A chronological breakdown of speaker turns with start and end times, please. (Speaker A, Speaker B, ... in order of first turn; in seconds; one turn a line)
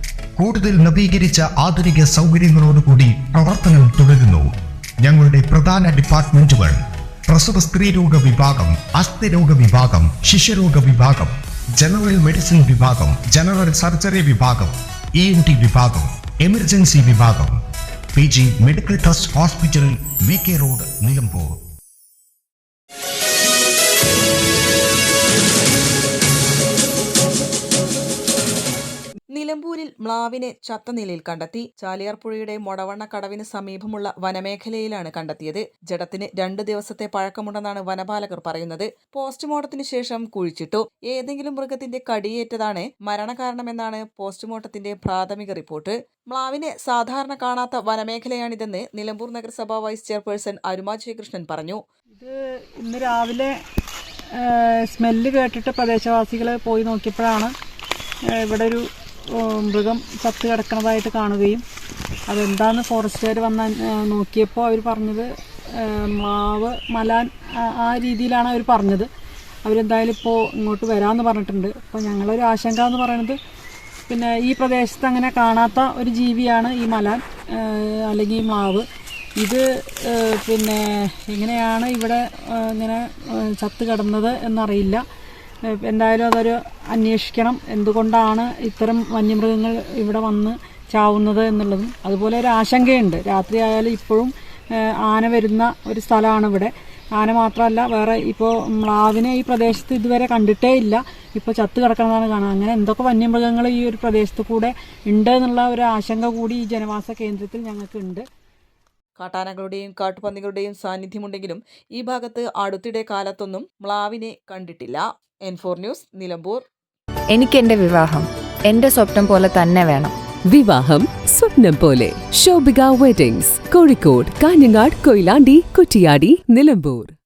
Speaker A: 0.4-4.5
Speaker A: 5.0-6.8
Speaker A: 7.3-17.6
Speaker A: 18.1-21.6
Speaker B: 29.3-51.8
Speaker C: 52.2-53.5
Speaker C: 54.3-57.5
Speaker C: 58.3-61.6
Speaker C: 62.3-69.1
Speaker C: 69.6-73.4
Speaker C: 74.1-78.8
Speaker C: 79.4-85.0
Speaker C: 85.7-108.2
Speaker B: 109.2-116.6
Speaker D: 117.3-120.1
Speaker E: 120.5-127.1